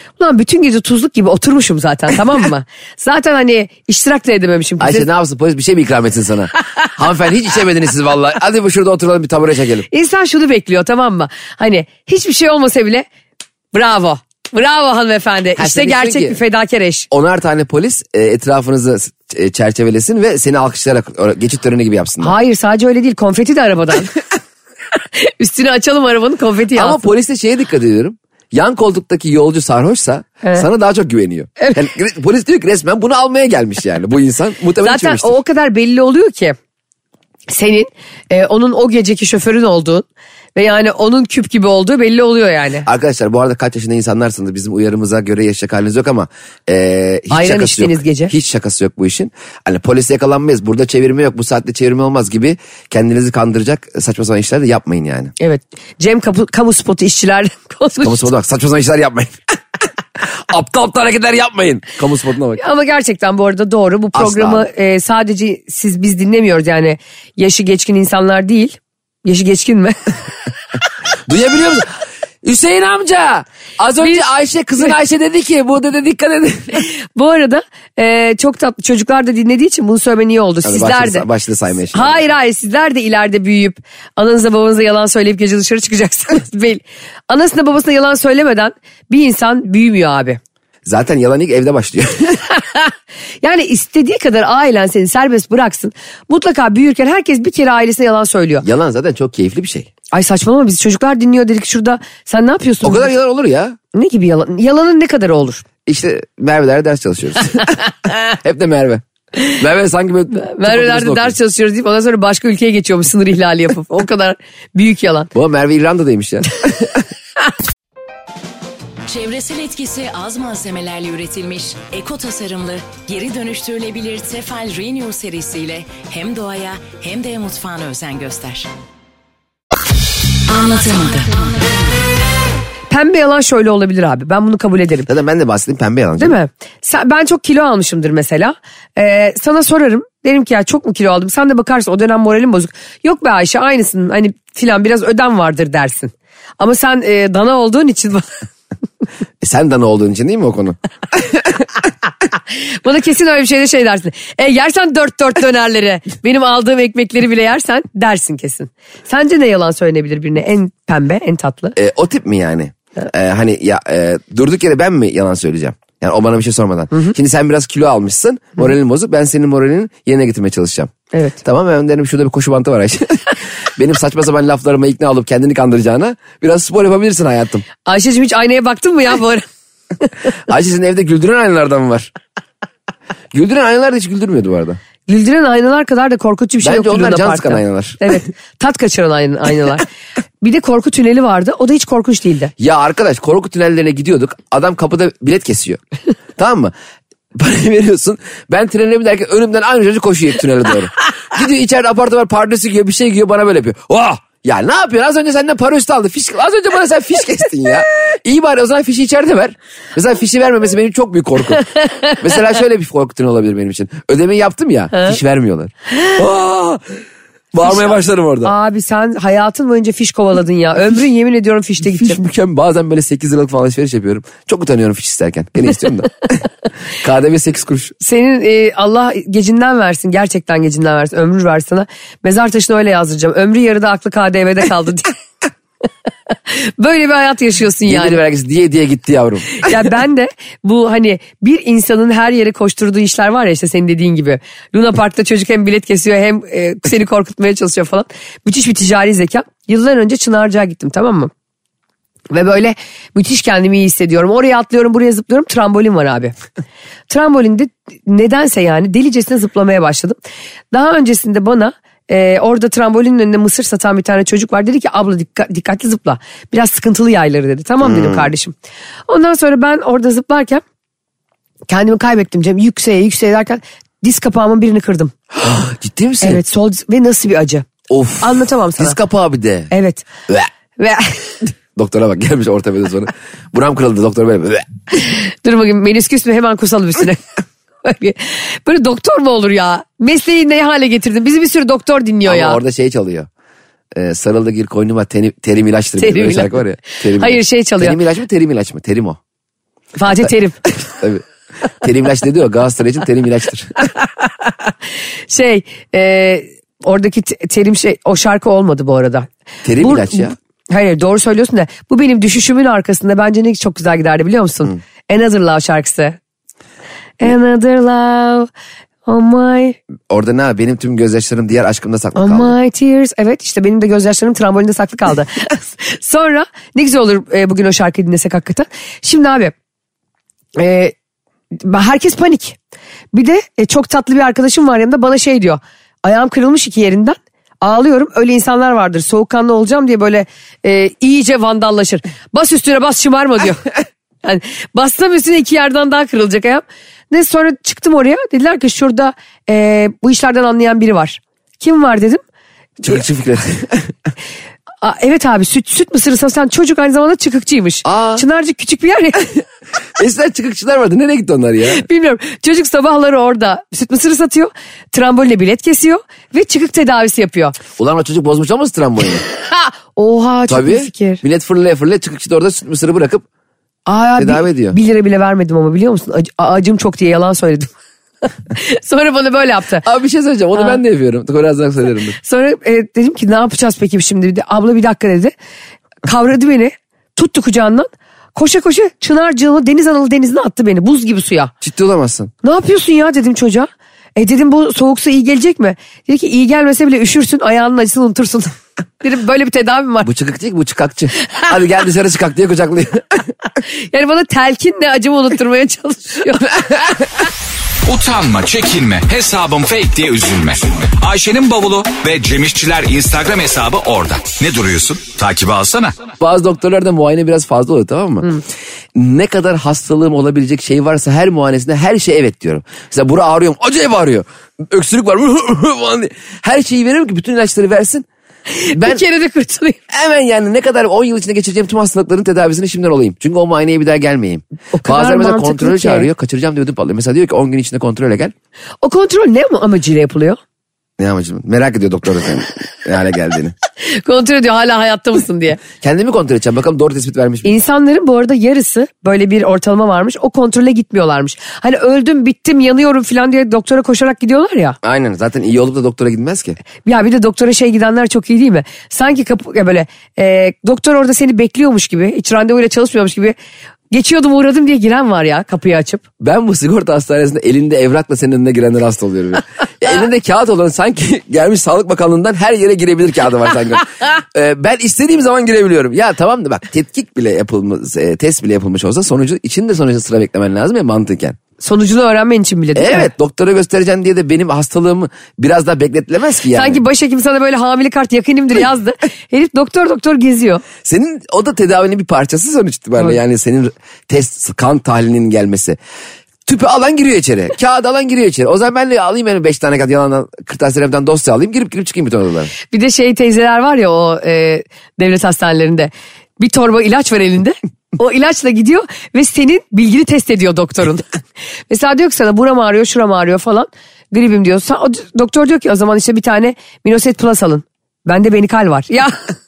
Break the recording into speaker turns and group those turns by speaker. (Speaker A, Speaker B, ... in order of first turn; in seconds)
Speaker A: 0.2-5.1, 9.9-13.1, 13.7-17.1, 22.2-24.2, 25.1-27.0, 34.8-36.5, 37.5-42.9, 47.3-48.3, 55.4-58.3, 62.6-70.2, 74.0-74.2, 76.8-81.2, 81.9-90.4, 92.6-98.7, 100.1-103.1, 103.9-105.6, 110.4-115.3, 132.9-135.1, 136.2-148.3, 152.5-161.7, 171.1-171.4, 177.8-179.4, 185.1-189.8, 190.4-192.5, 211.6-212.2, 217.6-217.9, 218.4-222.2, 228.0-235.2, 236.5-238.2, 239.6-251.3, 252.3-256.3, 257.1-260.2, 260.7-268.5, 269.1-270.6, 271.7-275.1, 276.2-279.0, 279.7-280.0, 280.8-281.4, 285.1-287.2, 287.8-292.6, 296.0-298.0, 299.9-300.6, 304.4-304.7, 305.3-309.3, 309.8-316.2, 317.2-318.5, 319.1-319.8, 322.1-329.5, 330.6-330.9, 331.5-332.6, 333.1-343.7, 344.2-352.2, 354.8-359.2, 361.7-367.6, 369.4-371.2, 373.9-377.7, 378.5-379.8, 382.2-385.3, 386.0-391.5, 392.4-400.1, 403.9-406.6, 428.5-429.8, 434.7-436.1, 438.8-440.4, 443.8-445.6, 447.4-454.8, 456.8-463.3, 463.9-466.0, 481.6-483.1, 486.5-490.6, 502.7-511.1, 511.7-519.3
Speaker B: 4.8-9.9, 15.6-16.4, 17.1-22.3, 26.7-35.4, 42.8-55.3, 58.0-59.4, 60.2-62.6, 64.1-64.7, 71.3-71.9, 72.4-76.8, 80.6-82.2, 90.8-92.4, 98.6-99.9, 102.8-103.8, 105.8-109.0, 109.5-111.3, 115.3-117.0, 135.1-136.4, 149.4-151.7, 161.8-177.6, 180.5-182.1, 183.3-184.8, 186.6-188.1, 192.6-195.8, 196.3-196.7, 197.3-211.6, 212.2-216.9, 217.5-218.5, 221.8-226.4, 227.0-227.9, 237.8-239.9, 267.8-268.3, 275.3-276.4, 277.9-279.7, 281.8-284.7, 292.2-293.3, 293.9-299.2, 300.6-301.2, 301.8-303.9, 309.6-310.3, 320.1-322.5, 352.8-353.9, 357.8-358.2, 359.9-361.8, 367.8-369.2, 370.5-373.2, 374.2-374.8, 379.8-382.2, 391.6-392.3, 400.0-403.3, 406.5-407.1, 416.2-418.3, 418.9-428.1, 428.7-429.0, 429.9-438.3, 441.0-443.5, 445.8-447.5, 454.8-456.6, 466.2-481.4, 482.7-486.8, 490.8-495.8, 496.4-502.5
Speaker C: 119.0-128.7, 130.5-132.1
Speaker D: 407.9-416.0